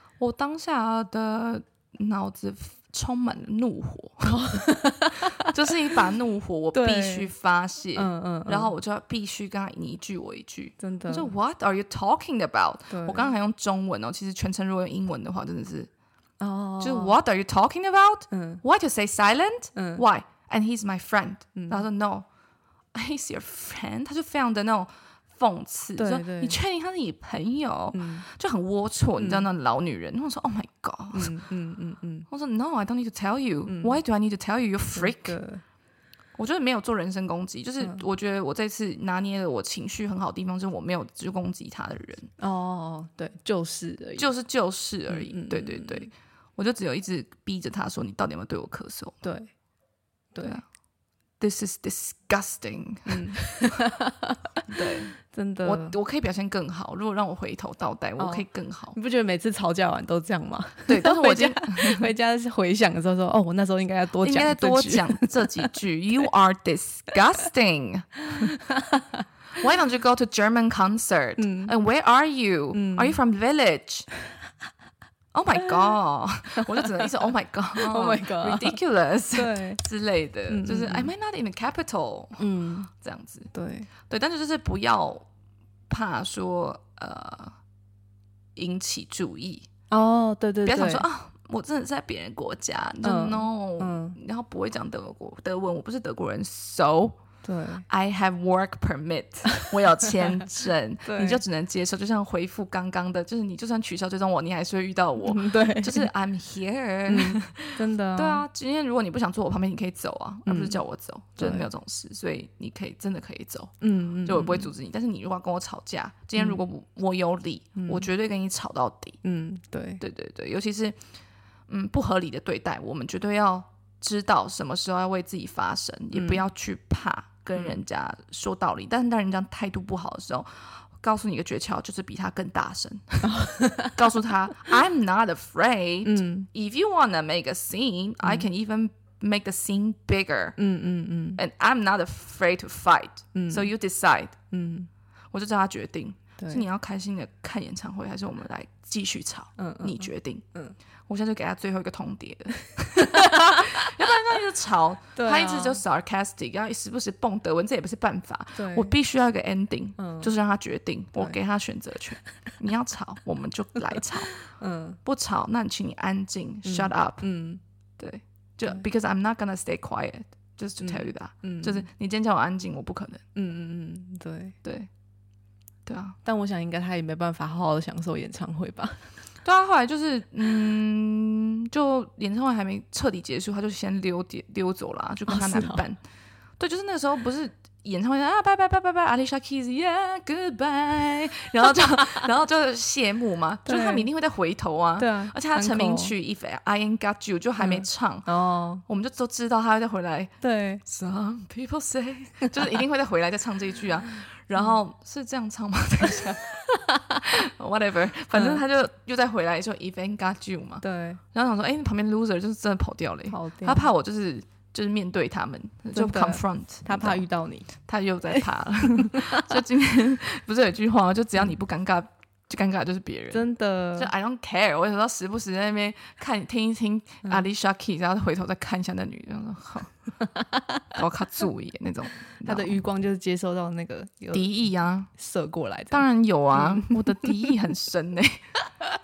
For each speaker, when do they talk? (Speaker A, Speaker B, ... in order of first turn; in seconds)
Speaker A: 0.2-4.4, 5.2-15.9, 16.8-22.2, 22.9-31.4, 32.3-35.4, 36.4-42.3, 44.2-49.2, 51.4-53.8, 54.7-59.0, 60.9-62.1, 64.2-68.5, 69.5-74.1, 75.3-83.5, 84.1-85.3, 85.9-87.5, 88.5-89.7, 90.6-97.2, 97.9-119.2, 120.0-121.0, 121.7-140.6, 141.3-144.4, 145.3-150.4, 151.1-164.3, 165.0-167.2, 168.0-173.2, 174.6-174.9, 175.9-176.2, 179.4-186.0, 186.6-198.3, 198.8-200.3, 200.8-217.2, 217.8-229.9, 230.9-232.8, 234.3-235.1, 235.9-238.5
Speaker B: 4.2-5.5, 6.7-7.3, 8.0-8.7, 10.8-11.3, 12.9-13.3, 16.4-17.1, 18.3-18.6, 19.8-20.0, 21.6-21.8, 26.0-26.6, 27.9-28.2, 29.2-29.5, 31.1-32.3, 33.7-34.0, 34.9-35.6, 42.4-44.3, 45.1-46.1, 49.2-49.5, 50.3-50.6, 53.0-55.9, 58.2-65.7, 68.3-69.2, 71.4-71.7, 72.7-73.2, 76.6-78.8, 79.3-79.8, 80.5-81.1, 82.4-82.9, 83.5-83.9, 89.9-91.0, 93.0-94.2, 97.4-97.8, 101.0-101.4, 105.2-106.1, 107.1-108.4, 110.5-110.8, 111.4-111.7, 113.8-114.7, 117.8-118.1, 119.2-120.0, 126.1-126.4, 133.2-134.0, 136.0-136.5, 140.6-141.4, 143.3-143.7, 144.5-144.9, 146.4-146.6, 149.6-150.8, 152.9-153.9, 155.2-155.8, 158.6-158.9, 160.0-160.3, 163.9-165.0, 166.6-167.6, 170.8-171.8, 173.3-174.6, 176.2-179.1, 185.3-185.8, 193.7-194.1, 195.0-196.1, 197.6-198.8, 200.4-200.8, 208.3-208.6, 210.8-211.2, 213.3-213.9, 215.9-217.7, 218.3-219.6, 223.3-224.1, 230.4-230.8, 232.4-234.5, 235.1-237.6